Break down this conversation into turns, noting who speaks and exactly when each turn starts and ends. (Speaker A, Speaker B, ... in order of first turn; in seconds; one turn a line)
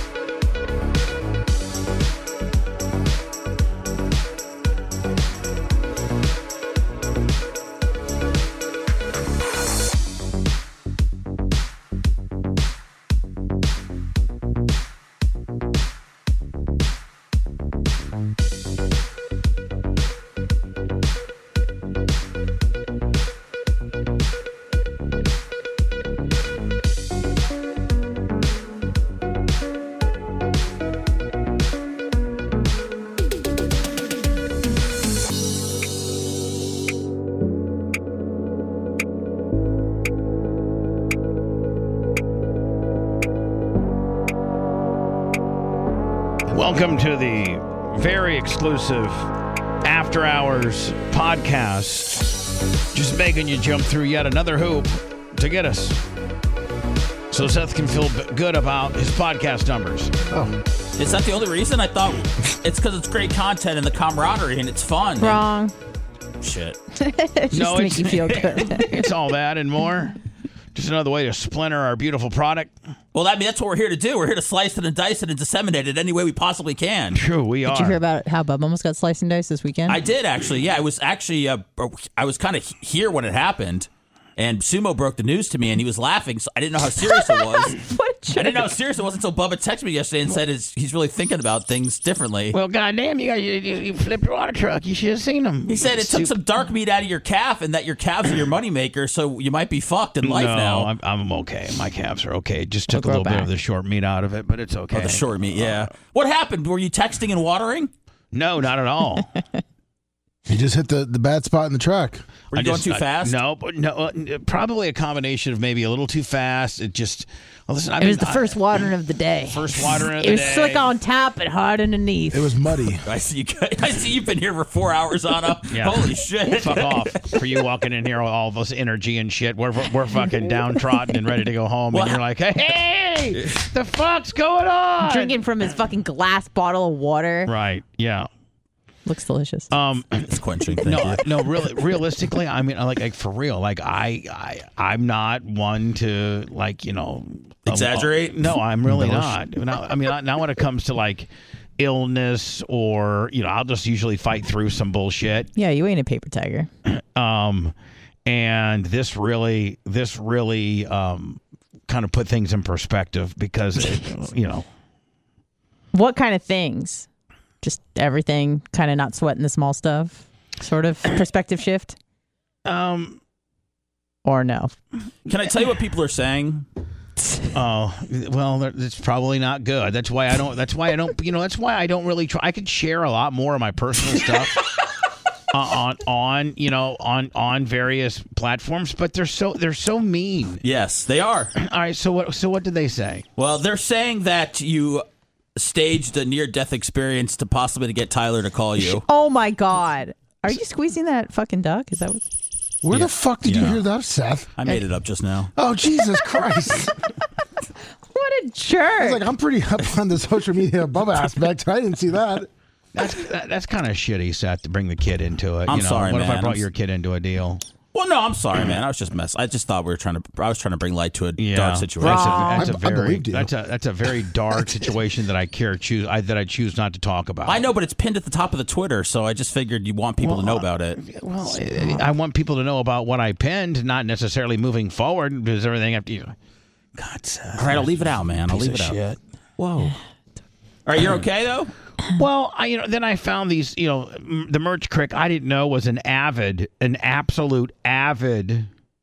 Speaker A: 46.5-49.3
Speaker A: 49.8-56.0
Speaker A: 57.3-60.1
Speaker B: 60.3-60.6
Speaker C: 61.0-65.4
Speaker D: 65.2-65.7
Speaker C: 66.4-66.8
Speaker D: 67.0-69.0
Speaker A: 67.5-70.2
Speaker C: 68.2-68.6
Speaker A: 70.8-72.7
Speaker C: 73.1-77.2
Speaker A: 77.1-78.0
Speaker D: 77.7-80.0
Speaker C: 79.9-87.8
Speaker D: 87.2-88.7
Speaker C: 88.3-92.6
Speaker A: 92.5-96.3
Speaker C: 95.7-100.9
Speaker A: 100.2-105.9
Speaker D: 102.9-103.5
Speaker C: 104.9-107.9
Speaker A: 108.3-109.3
Speaker B: 110.5-112.2
Speaker C: 112.5-113.4
Speaker A: 112.5-118.6
Speaker D: 118.0-122.6
Speaker A: 119.5-120.9
Speaker B: 122.3-123.0
Speaker C: 123.0-127.4
Speaker A: 125.7-135.3
Speaker C: 131.9-132.2
Speaker C: 133.4-133.7
Speaker D: 135.0-137.5
Speaker A: 137.5-138.3
Speaker D: 139.1-139.7
Speaker A: 139.7-140.3
Speaker C: 140.3-141.3
Speaker A: 140.8-155.5
Speaker C: 147.7-148.5
Speaker D: 155.6-156.7
Speaker A: 156.9-157.7
Speaker A: 158.2-164.7
Speaker D: 165.9-167.1
Speaker D: 167.6-171.9
Speaker A: 172.7-173.2
Speaker D: 174.2-174.7
Speaker C: 175.2-176.6
Speaker A: 177.5-184.7
Speaker A: 185.5-190.6
Speaker C: 190.6-191.5
Speaker A: 191.6-193.2
Speaker C: 193.4-195.0
Speaker C: 195.6-199.0
Speaker D: 198.8-202.2
Speaker B: 202.8-204.5
Speaker C: 202.9-203.8
Speaker C: 204.6-205.5
Speaker B: 205.6-206.9
Speaker D: 208.1-209.2
Speaker B: 209.0-212.5
Speaker A: 212.9-217.6
Speaker C: 215.7-216.6
Speaker C: 217.9-222.5
Speaker A: 221.4-227.6
Speaker D: 222.0-222.7
Speaker B: 222.5-223.5
Speaker C: 227.4-231.0
Speaker A: 230.2-236.3
Speaker D: 231.8-232.1
Speaker A: 236.9-239.9
Speaker C: 237.6-239.0
Speaker C: 240.9-241.7
Speaker A: 242.1-248.7